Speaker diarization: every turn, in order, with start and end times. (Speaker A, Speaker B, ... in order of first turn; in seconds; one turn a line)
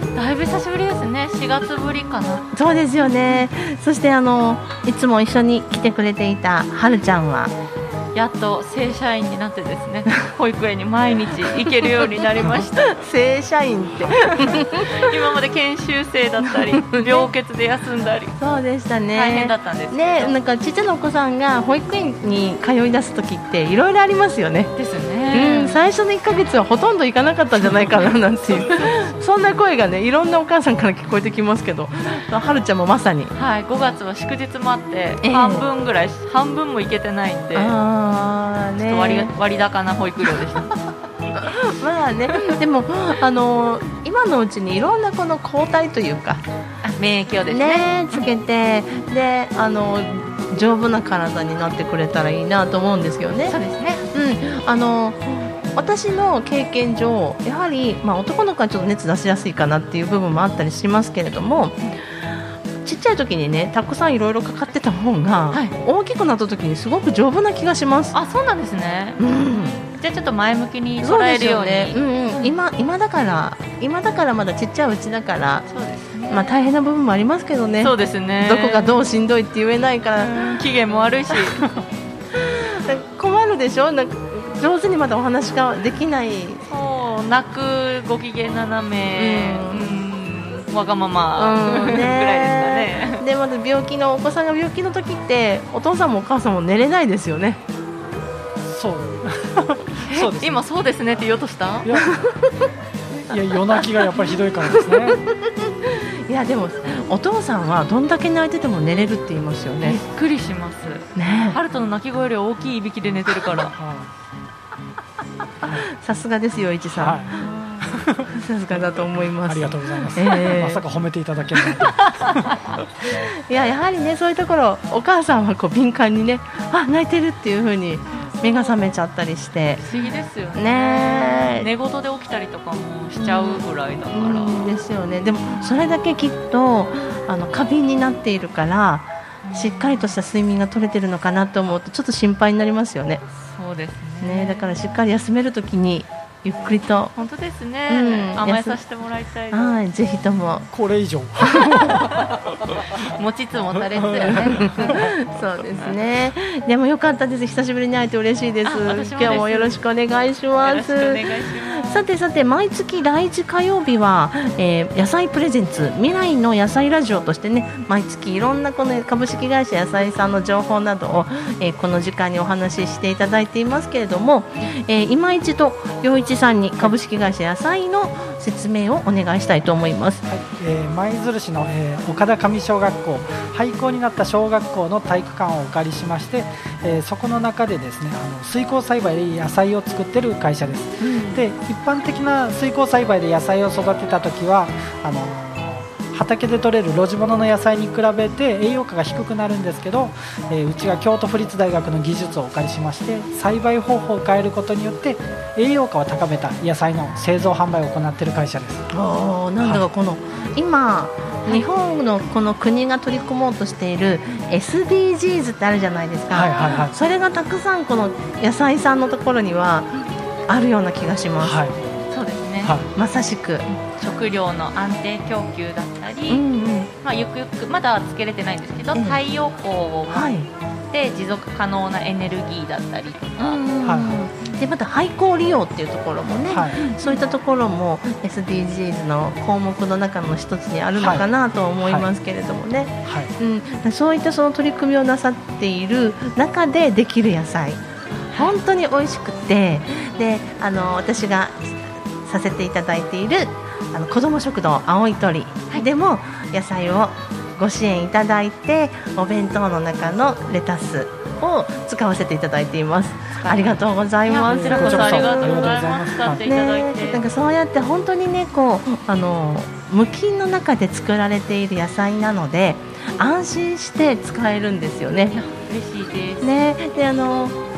Speaker A: 0.1-2.5
Speaker B: 2.5-7.5
Speaker A: 8.2-12.9
Speaker B: 12.8-15.1
Speaker A: 14.2-18.4
Speaker B: 16.6-17.3
Speaker B: 18.4-24.8
Speaker A: 19.1-20.3
Speaker A: 24.8-25.8
Speaker B: 25.3-33.3
Speaker C: 28.8-29.2
Speaker A: 33.4-37.7
Speaker B: 35.2-35.7
Speaker B: 37.5-39.3
Speaker A: 38.8-40.7
Speaker B: 41.3-46.4
Speaker A: 46.8-48.2
Speaker B: 47.5-53.6
Speaker A: 53.5-54.0
Speaker B: 54.1-62.3
Speaker B: 62.8-68.2
Speaker A: 68.1-69.3
Speaker B: 69.2-69.9
Speaker A: 69.9-72.5
Speaker B: 71.0-75.7
Speaker A: 75.7-76.6
Speaker B: 76.3-80.6
Speaker A: 77.8-79.0
Speaker A: 80.2-81.8
Speaker B: 82.3-86.7
Speaker A: 86.7-93.2
Speaker B: 89.1-90.0
Speaker B: 91.4-97.6
Speaker C: 98.6-100.6
Speaker A: 100.1-101.9
Speaker C: 101.8-102.2
Speaker B: 102.0-102.7
Speaker C: 103.3-105.2
Speaker B: 104.7-110.0
Speaker A: 109.8-113.8
Speaker B: 111.2-111.6
Speaker C: 113.6-114.1
Speaker B: 115.6-117.4
Speaker C: 117.0-118.4
Speaker B: 118.2-120.8
Speaker C: 119.5-122.5
Speaker A: 122.0-122.6
Speaker B: 123.1-129.8
Speaker A: 129.8-134.7
Speaker B: 130.6-131.7
Speaker B: 133.2-143.2
Speaker A: 139.4-140.0
Speaker A: 143.4-144.7
Speaker B: 144.2-147.1
Speaker A: 147.2-149.8
Speaker B: 147.9-148.8
Speaker B: 149.5-150.7
Speaker C: 150.7-152.2
Speaker B: 151.5-151.9
Speaker A: 151.8-152.4
Speaker A: 152.9-155.1
Speaker B: 154.3-180.3
Speaker C: 154.3-154.9
Speaker A: 158.7-159.8
Speaker A: 160.6-162.0
Speaker C: 180.3-208.9
Speaker B: 191.0-191.4
Speaker B: 208.9-219.9
Speaker C: 216.3-216.9
Speaker B: 220.5-221.6
Speaker C: 221.4-221.8
Speaker A: 222.1-222.8
Speaker C: 222.6-222.9
Speaker B: 222.9-223.7
Speaker A: 223.7-226.4
Speaker B: 226.3-226.9
Speaker A: 227.0-230.3
Speaker B: 228.9-229.2
Speaker B: 230.1-230.5
Speaker A: 230.9-233.6
Speaker B: 233.4-247.8
Speaker C: 233.8-234.2
Speaker C: 236.5-236.8
Speaker C: 241.0-241.3
Speaker C: 243.1-243.3
Speaker B: 248.3-265.4
Speaker A: 263.4-267.2
Speaker C: 264.5-266.4
Speaker B: 266.3-275.4
Speaker A: 275.3-276.4
Speaker B: 276.4-277.6